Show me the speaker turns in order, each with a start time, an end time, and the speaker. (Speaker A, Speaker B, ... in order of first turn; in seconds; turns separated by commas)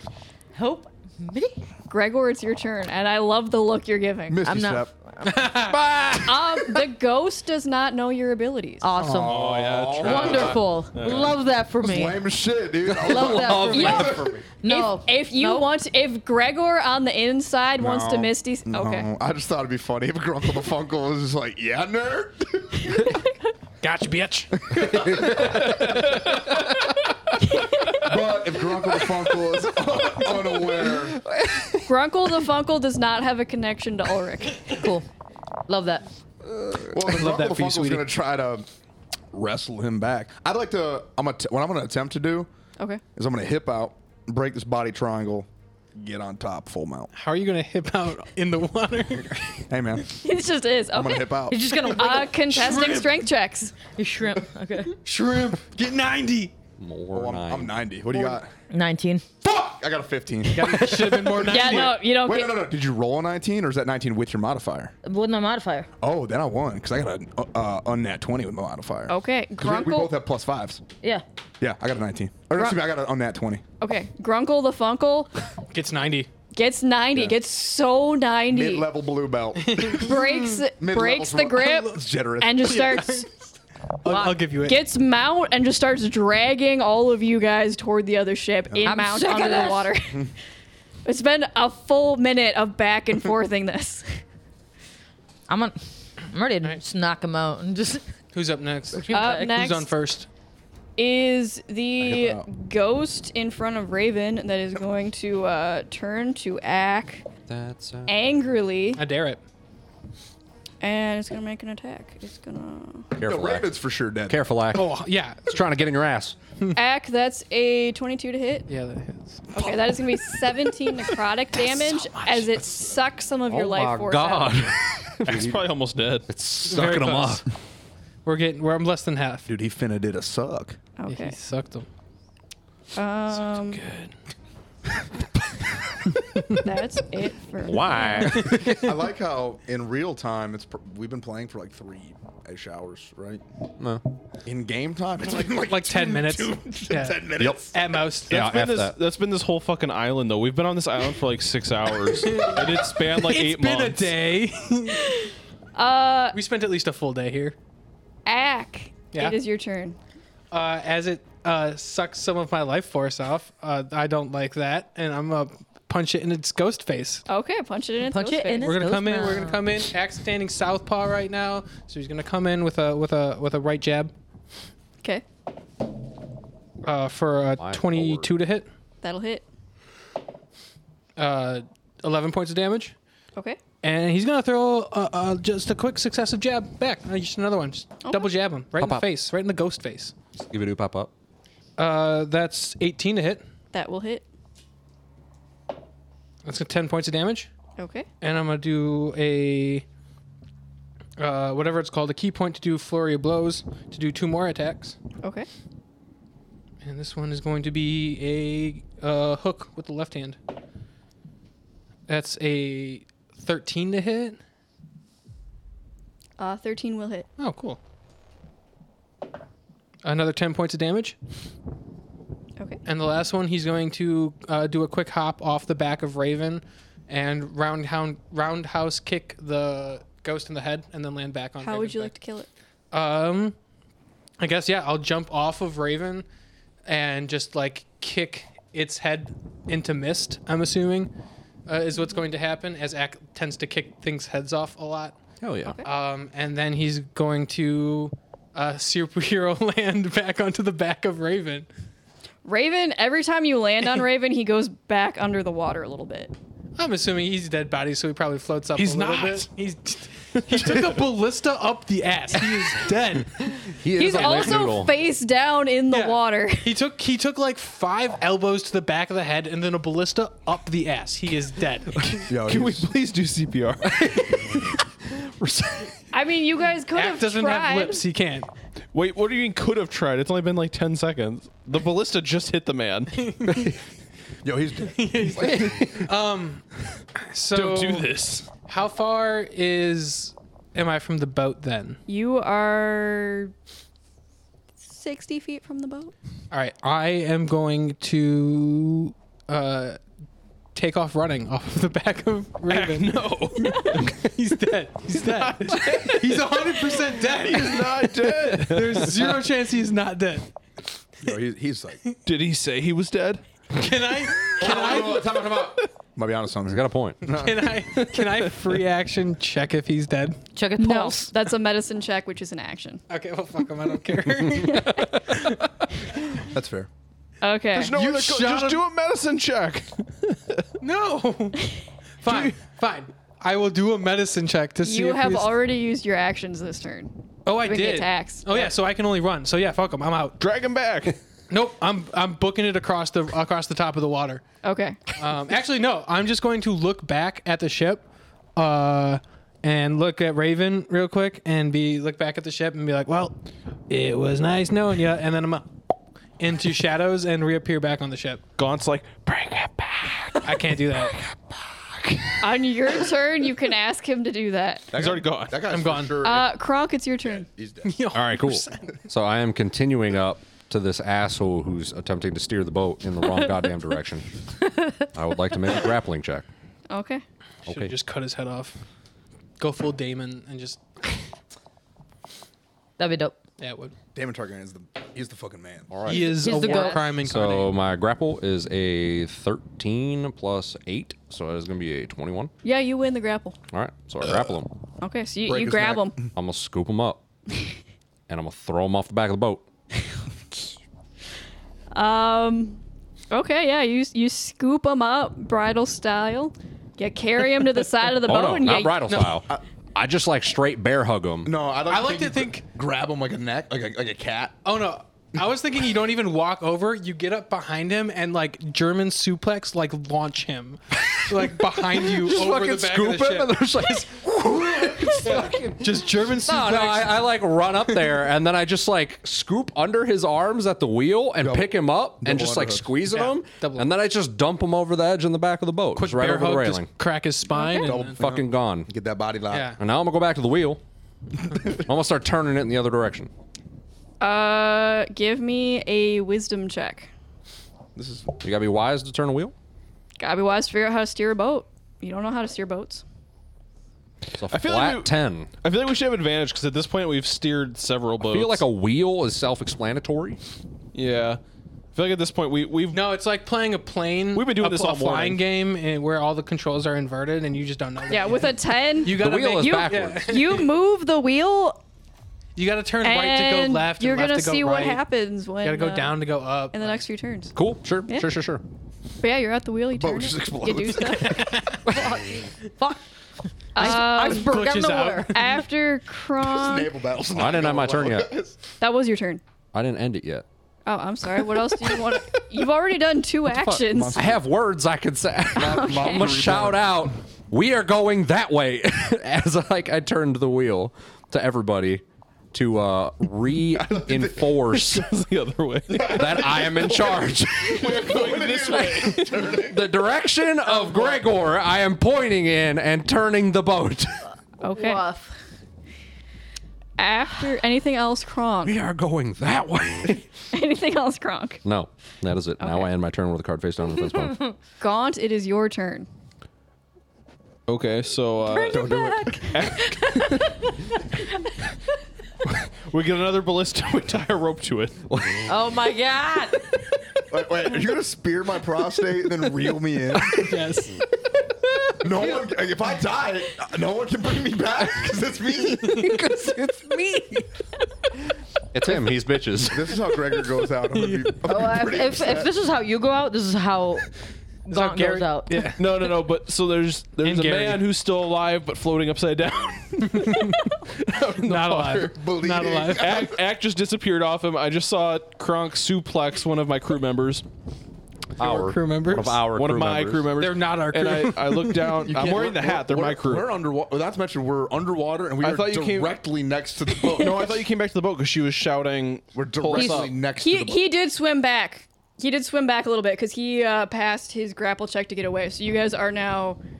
Speaker A: 0.5-1.6, Speaker B: 1.9-4.4, Speaker C: 4.3-4.9, Speaker A: 4.4-5.5, Speaker D: 5.2-5.8, Speaker E: 5.7-6.6, Speaker B: 6.2-8.9, Speaker A: 8.8-9.4, Speaker C: 9.0-14.4, Speaker F: 9.2-11.3, Speaker A: 10.0-12.3, Speaker E: 12.8-14.3, Speaker A: 13.0-15.7, Speaker B: 13.7-19.1, Speaker C: 17.8-23.1, Speaker D: 23.8-24.6, Speaker C: 24.5-26.6, Speaker E: 25.1-25.6, Speaker F: 25.3-26.4, Speaker B: 27.4-28.1, Speaker C: 28.0-31.2, Speaker B: 31.9-34.7, Speaker A: 34.7-35.0, Speaker A: 35.7-36.0, Speaker C: 36.7-38.7, Speaker D: 37.0-38.1, Speaker C: 39.3-42.5, Speaker C: 43.1-47.1, Speaker D: 47.1-49.6, Speaker C: 49.7-50.1, Speaker B: 50.2-51.3, Speaker C: 50.9-51.6, Speaker A: 51.5-52.7, Speaker B: 51.9-53.7, Speaker D: 52.4-53.3, Speaker A: 53.9-55.0, Speaker D: 54.9-56.5, Speaker E: 56.8-57.8, Speaker C: 57.1-58.5, Speaker A: 58.7-59.2, Speaker C: 59.4-64.9, Speaker D: 60.5-62.0, Speaker B: 61.4-62.7, Speaker A: 65.0-65.9, Speaker C: 66.0-70.8, Speaker B: 69.1-70.1, Speaker C: 71.6-73.6, Speaker B: 73.8-75.3, Speaker D: 75.7-76.3, Speaker B: 76.5-78.9, Speaker C: 78.5-80.2, Speaker D: 79.6-80.2, Speaker B: 80.0-83.3, Speaker C: 80.8-82.7, Speaker D: 82.6-83.3, Speaker D: 84.0-84.8, Speaker A: 84.1-84.3, Speaker B: 84.6-90.3, Speaker C: 88.7-89.0, Speaker A: 88.8-89.9, Speaker B: 91.0-94.2, Speaker A: 95.5-98.1, Speaker D: 98.3-100.3, Speaker A: 99.0-99.5, Speaker B: 99.1-99.9, Speaker B: 101.0-107.2, Speaker C: 102.0-102.4, Speaker E: 107.5-108.1, Speaker B: 108.1-109.0, Speaker D: 109.0-109.4, Speaker B: 110.8-113.1, Speaker E: 113.2-113.7, Speaker C: 113.2-114.4, Speaker E: 114.3-114.9, Speaker D: 114.7-115.5, Speaker E: 115.5-116.3, Speaker B: 116.8-118.7, Speaker D: 118.7-119.5, Speaker B: 119.5-124.7, Speaker C: 119.6-120.0, Speaker E: 122.1-122.4, Speaker E: 123.5-125.6, Speaker F: 125.2-126.3, Speaker E: 126.3-127.4, Speaker D: 126.6-127.4, Speaker D: 128.2-129.4, Speaker C: 129.5-130.8, Speaker B: 131.0-131.3, Speaker D: 131.1-131.9, Speaker B: 132.9-133.8, Speaker F: 133.4-134.1, Speaker B: 136.6-138.4, Speaker E: 137.6-138.7, Speaker D: 138.3-138.9, Speaker C: 138.6-143.4, Speaker C: 144.4-147.7, Speaker D: 145.4-148.5, Speaker E: 147.4-147.7, Speaker E: 148.3-148.9, Speaker F: 148.3-154.2, Speaker D: 152.2-155.3, Speaker B: 155.7-156.4, Speaker D: 156.3-157.6, Speaker B: 158.2-160.0, Speaker D: 159.1-159.4, Speaker D: 160.5-167.2, Speaker B: 167.3-168.8, Speaker A: 168.0-169.6, Speaker D: 168.6-174.1, Speaker D: 176.8-178.7, Speaker E: 177.6-178.3, Speaker B: 179.0-179.4, Speaker D: 181.2-182.9, Speaker D: 183.8-190.1, Speaker B: 188.0-188.3, Speaker E: 188.8-189.0, Speaker E: 190.3-191.1, Speaker D: 191.8-193.4, Speaker B: 193.7-194.2, Speaker D: 196.4-197.5, Speaker B: 197.8-198.1, Speaker D: 198.2-199.8, Speaker D: 201.2-204.9, Speaker B: 205.2-205.5, Speaker D: 206.8-210.4, Speaker D: 212.1-214.4, Speaker B: 216.4-217.3, Speaker D: 217.4-217.8, Speaker D: 220.0-221.2, Speaker D: 222.8-232.1, Speaker B: 231.6-232.5, Speaker D: 232.9-233.6, Speaker D: 234.4-236.2, Speaker D: 236.8-241.1, Speaker D: 241.7-245.2, Speaker E: 245.4-245.8, Speaker D: 245.8-251.7, Speaker B: 252.4-256.3, Speaker D: 256.8-263.7, Speaker F: 258.8-259.5, Speaker F: 260.5-260.9, Speaker E: 263.7-264.9, Speaker B: 263.9-266.7, Speaker D: 265.9-272.2, Speaker F: 272.1-274.8, Speaker C: 272.2-272.9, Speaker E: 275.2-275.9, Speaker B: 276.1-278.0, Speaker D: 276.9-278.5, Speaker F: 278.9-283.3, Speaker D: 283.2-283.7, Speaker C: 284.4-286.1, Speaker D: 284.9-286.6, Speaker D: 287.2-288.1, Speaker F: 287.5-288.5, Speaker D: 288.6-292.0, Speaker B: 292.1-293.5, Speaker B: 294.8-296.1, Speaker D: 296.5-300.0, Speaker D: 300.7-303.1, Speaker F: 302.7-304.3, Speaker D: 303.6-310.5, Speaker F: 305.1-309.4, Speaker C: 311.2-312.0, Speaker F: 312.2-313.4, Speaker D: 313.7-315.6, Speaker F: 314.4-315.1, Speaker C: 314.6-317.8, Speaker E: 316.7-317.2, Speaker D: 317.2-320.4, Speaker F: 317.9-318.7, Speaker A: 320.5-321.3, Speaker B: 320.8-323.0, Speaker D: 323.1-325.7, Speaker B: 324.5-325.2, Speaker C: 326.5-326.9, Speaker B: 327.4-327.9, Speaker F: 327.7-330.6, Speaker D: 327.8-328.8, Speaker D: 330.8-335.6, Speaker F: 332.2-332.6, Speaker B: 334.8-338.7, Speaker D: 337.4-340.4, Speaker F: 340.4-341.2, Speaker D: 341.5-344.4, Speaker B: 344.6-345.0, Speaker D: 345.1-355.7, Speaker D: 356.4-358.4, Speaker F: 358.6-360.6, Speaker D: 360.4-361.2, Speaker B: 362.4-364.9, Speaker C: 364.9-366.5, Speaker F: 364.9-365.6, Speaker D: 365.6-366.3, Speaker B: 366.2-367.5, Speaker C: 367.2-368.1, Speaker D: 367.8-368.9, Speaker E: 368.1-374.3, Speaker E: 375.0-376.4, Speaker B: 376.9-377.2, Speaker E: 377.6-377.9, Speaker D: 377.7-378.8, Speaker D: 379.6-381.2, Speaker A: 383.0-383.4, Speaker D: 383.6-383.9, Speaker C: 384.1-386.1, Speaker E: 385.9-386.4, Speaker D: 386.0-387.7, Speaker A: 386.4-387.0, Speaker E: 387.0-392.5, Speaker B: 392.6-393.6, Speaker E: 393.7-394.7, Speaker B: 395.0-396.1, Speaker C: 395.4-396.2, Speaker E: 396.3-397.2, Speaker E: 398.3-399.6, Speaker B: 401.9-402.8, Speaker B: 403.3-409.0, Speaker E: 408.2-411.5, Speaker D: 409.0-409.4, Speaker C: 411.4-414.7, Speaker D: 411.9-412.6, Speaker D: 414.6-423.6, Speaker E: 421.3-436.9, Speaker C: 424.5-425.4, Speaker D: 425.2-427.2, Speaker C: 431.4-433.0, Speaker D: 433.1-433.9, Speaker D: 435.9-438.2, Speaker C: 437.8-439.8, Speaker E: 438.0-438.9, Speaker D: 439.5-439.8, Speaker E: 439.8-440.8, Speaker E: 441.6-443.3, Speaker B: 444.2-447.1, Speaker C: 447.9-448.4, Speaker E: 448.4-449.5, Speaker B: 450.2-453.0, Speaker F: 454.3-458.6, Speaker E: 454.4-455.5, Speaker E: 458.2-460.4, Speaker F: 460.9-461.4, Speaker F: 461.9-463.0, Speaker D: 462.9-470.7, Speaker F: 464.3-465.4, Speaker B: 468.1-471.8, Speaker E: 469.1-470.5, Speaker D: 472.6-475.0, Speaker B: 473.0-477.5, Speaker D: 475.6-477.1, Speaker E: 477.6-478.6, Speaker B: 479.2-481.5, Speaker C: 479.9-481.4, Speaker D: 481.1-482.0, Speaker A: 481.9-483.0, Speaker B: 483.7-484.6, Speaker A: 483.7-485.3, Speaker D: 483.8-485.6, Speaker B: 485.3-486.9, Speaker C: 486.4-488.6, Speaker E: 487.3-488.3, Speaker B: 488.8-489.4, Speaker E: 489.7-490.4, Speaker B: 490.9-494.3, Speaker E: 493.6-505.1, Speaker C: 493.9-494.4, Speaker B: 495.6-496.5, Speaker C: 495.6-497.1, Speaker C: 503.7-504.7, Speaker F: 504.7-509.6, Speaker C: 505.9-509.9, Speaker E: 506.1-507.9, Speaker E: 509.3-514.1, Speaker B: 514.6-515.0, Speaker A: 514.7-515.4, Speaker B: 517.0-518.8, Speaker E: 518.6-520.3, Speaker B: 520.5-521.6, Speaker E: 521.6-524.4, Speaker B: 522.6-522.9, Speaker A: 524.3-524.5, Speaker B: 524.8-526.1, Speaker F: 527.7-528.9, Speaker A: 528.5-530.5, Speaker C: 528.7-529.4, Speaker F: 529.5-530.7, Speaker F: 532.4-535.4, Speaker A: 535.5-536.7, Speaker C: 537.3-540.6, Speaker D: 540.3-541.0, Speaker C: 542.0-546.4, Speaker E: 548.7-550.0, Speaker C: 549.6-552.5, Speaker D: 550.9-551.3, Speaker A: 551.4-554.1, Speaker A: 554.6-555.7, Speaker D: 554.7-555.8, Speaker F: 555.8-562.1, Speaker D: 557.2-557.8, Speaker D: 560.0-560.7, Speaker D: 561.4-563.2, Speaker C: 562.1-563.4, Speaker F: 562.9-567.4, Speaker D: 568.4-569.4, Speaker E: 568.4-570.3, Speaker F: 569.5-573.5, Speaker D: 570.4-572.2, Speaker C: 572.0-577.6, Speaker F: 575.4-576.2, Speaker F: 577.1-580.1, Speaker C: 579.3-580.9, Speaker A: 579.7-580.0, Speaker B: 580.4-586.6